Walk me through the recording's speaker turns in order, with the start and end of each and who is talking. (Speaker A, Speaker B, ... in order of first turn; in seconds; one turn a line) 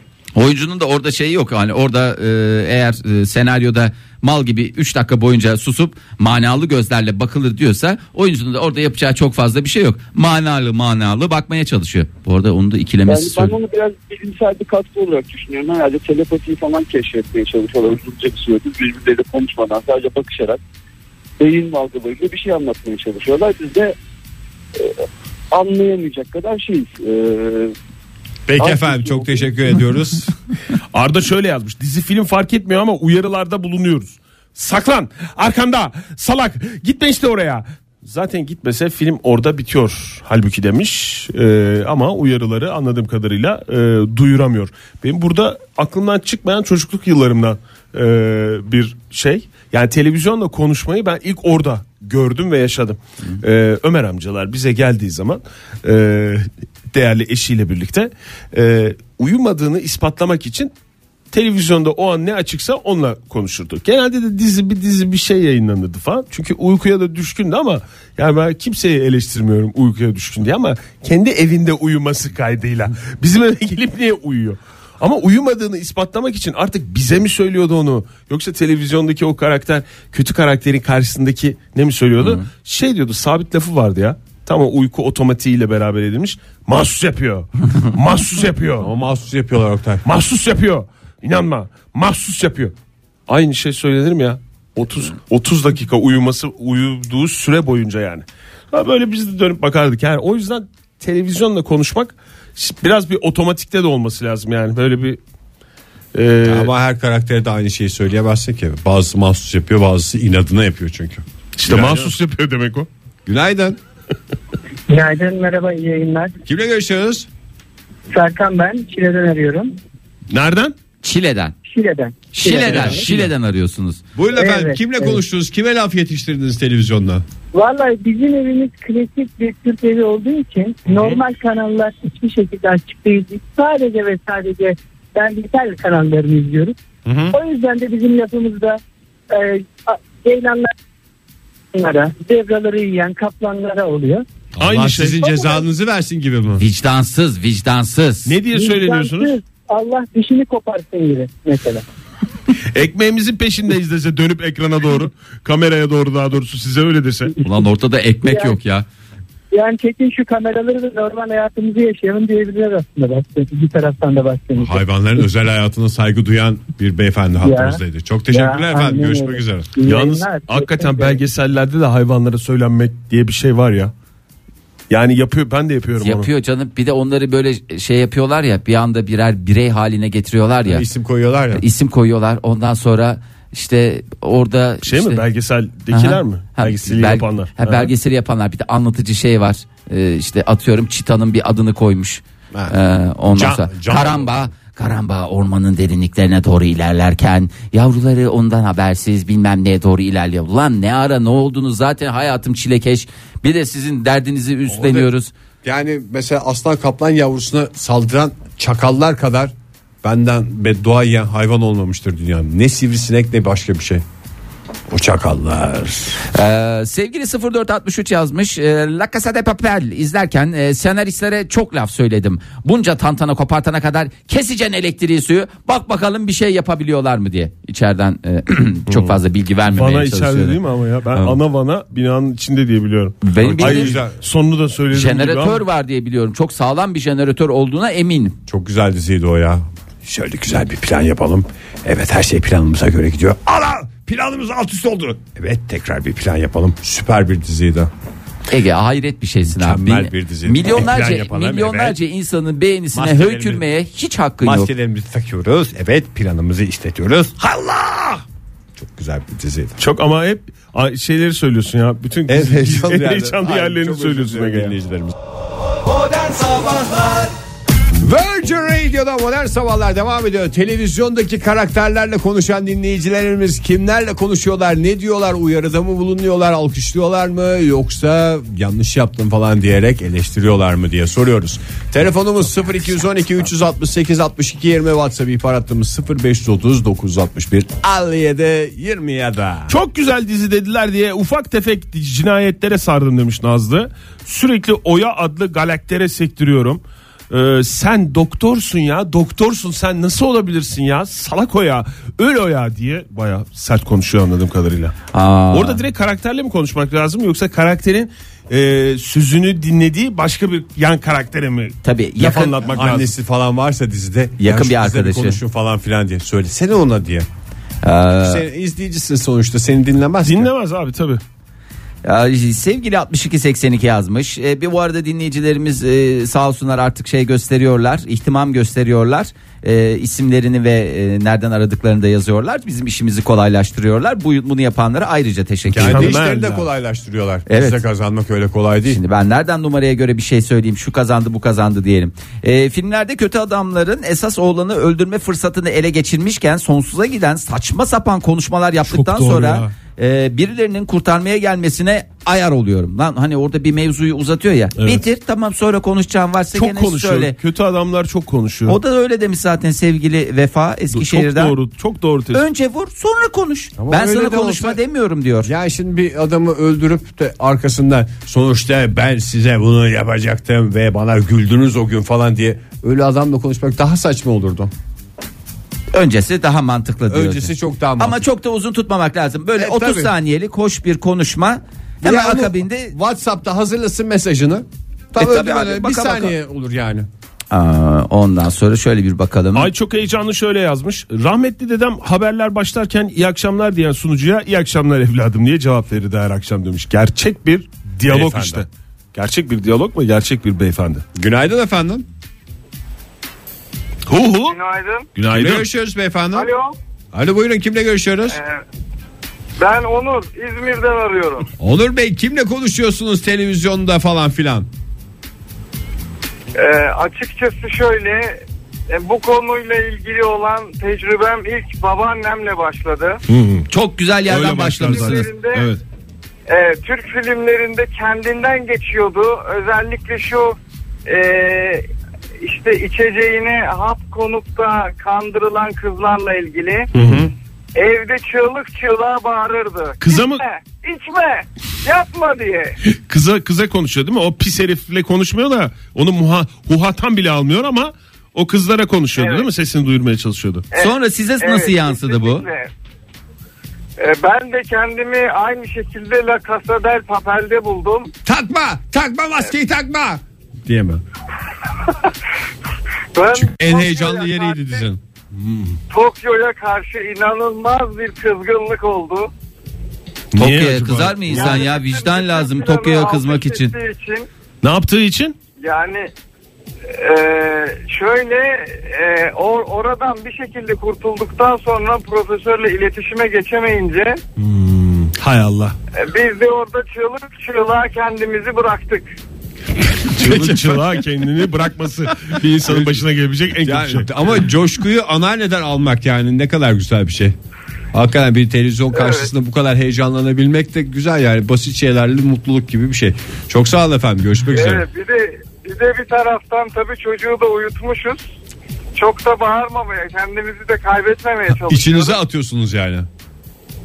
Speaker A: 0.4-13.6
Speaker B: 13.1-20.6
Speaker B: 21.4-24.0
Speaker B: 24.8-27.8
Speaker C: 28.5-30.4
Speaker B: 28.6-29.5
Speaker D: 30.9-60.7
Speaker D: 61.3-88.9
Speaker A: 82.2-82.5
Speaker C: 88.8-90.0
Speaker D: 90.0-92.7
Speaker D: 93.3-105.2
Speaker D: 106.1-106.7
Speaker C: 106.4-112.1
Speaker D: 111.6-112.9
Speaker C: 113.3-113.8
Speaker E: 114.9-116.3
Speaker C: 116.5-117.3
Speaker E: 118.1-119.7
Speaker D: 120.3-120.8
Speaker A: 121.0-121.5
Speaker E: 121.7-123.1
Speaker A: 122.3-124.0
Speaker D: 122.7-123.2
Speaker C: 124.2-127.2
Speaker E: 124.3-125.2
Speaker E: 127.5-136.8
Speaker C: 137.1-137.4
Speaker E: 137.3-140.7
Speaker E: 141.7-144.3
Speaker C: 144.6-146.6
Speaker D: 144.6-145.2
Speaker E: 145.2-145.7
Speaker A: 146.6-148.4
Speaker D: 148.3-149.3
Speaker E: 148.5-151.8
Speaker D: 152.7-157.3
Speaker E: 157.3-157.7
Speaker A: 157.4-158.9
Speaker E: 158.2-158.6
Speaker E: 159.5-164.8
Speaker C: 164.6-169.7
Speaker E: 167.4-171.2
Speaker D: 169.8-173.9
Speaker D: 174.9-176.3
Speaker A: 176.0-180.8
Speaker C: 180.7-181.6
Speaker A: 181.5-185.2
Speaker D: 184.8-187.9
Speaker A: 185.9-205.3
Speaker C: 193.3-194.4
Speaker C: 204.7-205.1
Speaker C: 205.6-214.0
Speaker C: 214.9-216.2
Speaker A: 216.3-230.6
Speaker D: 228.9-235.6
Speaker A: 233.2-234.0
Speaker C: 233.4-234.2
Speaker A: 234.9-238.4
Speaker C: 238.5-247.9
Speaker A: 248.5-254.7
Speaker C: 249.5-252.0
Speaker C: 252.9-253.7
Speaker C: 254.4-258.2
Speaker C: 258.8-259.8
Speaker D: 259.8-264.8
Speaker C: 262.3-265.1
Speaker C: 268.0-289.7
Speaker D: 289.7-304.9
Speaker A: 305.1-305.8
Speaker D: 305.5-313.2
Speaker A: 311.8-312.6
Speaker C: 312.3-317.3
Speaker A: 314.4-315.4
Speaker A: 317.8-318.4
Speaker C: 318.2-320.5
Speaker D: 320.2-321.2
Speaker A: 322.0-336.2
Speaker C: 335.7-339.0
Speaker D: 335.8-336.6
Speaker A: 337.5-337.8
Speaker A: 338.9-357.4
Speaker D: 348.9-349.7
Speaker D: 354.8-355.0
Speaker D: 356.5-358.8
Speaker A: 358.7-361.5
Speaker D: 360.9-362.4
Speaker A: 362.3-365.5
Speaker C: 363.8-364.8
Speaker C: 365.4-374.7
Speaker A: 375.9-382.9
Speaker C: 377.1-378.2
Speaker C: 379.6-380.1
Speaker C: 382.0-387.1
Speaker A: 385.2-386.3
Speaker A: 387.5-389.7
Speaker D: 389.6-401.0
Speaker C: 398.1-398.7
Speaker C: 401.2-402.1
Speaker D: 404.1-404.6
Speaker F: 404.4-405.1
Speaker D: 405.2-405.7
Speaker C: 405.3-406.5
Speaker F: 406.3-406.8
Speaker C: 407.1-408.4
Speaker F: 408.3-408.6
Speaker F: 409.6-411.5
Speaker C: 411.6-414.7
Speaker F: 416.6-423.2
Speaker D: 423.3-423.7
Speaker A: 423.7-425.3
Speaker D: 424.3-425.8
Speaker F: 424.8-425.7
Speaker F: 426.5-431.9
Speaker F: 432.4-436.9
Speaker D: 436.9-437.3
Speaker C: 436.9-437.3
Speaker F: 437.8-442.8
Speaker D: 440.0-440.4
Speaker D: 442.9-450.7
Speaker F: 449.2-449.5
Speaker F: 450.7-452.7
Speaker A: 450.8-452.4
Speaker F: 454.0-458.1
Speaker C: 458.3-461.0
Speaker F: 463.1-464.9
Speaker C: 463.3-465.0
Speaker F: 465.9-469.3
Speaker D: 470.3-471.1
Speaker A: 470.4-473.7
Speaker C: 470.4-471.4
Speaker F: 471.3-474.3
Speaker D: 474.6-475.4
Speaker F: 475.6-476.1
Speaker F: 476.9-484.2
Speaker D: 484.4-485.8
Speaker F: 485.9-489.1
Speaker D: 490.1-494.4
Speaker C: 490.2-491.0
Speaker C: 492.7-493.0
Speaker C: 493.6-497.4
Speaker C: 497.9-504.9
Speaker F: 498.9-499.3
Speaker F: 504.5-508.2
Speaker F: 509.0-512.2
Speaker C: 511.7-513.1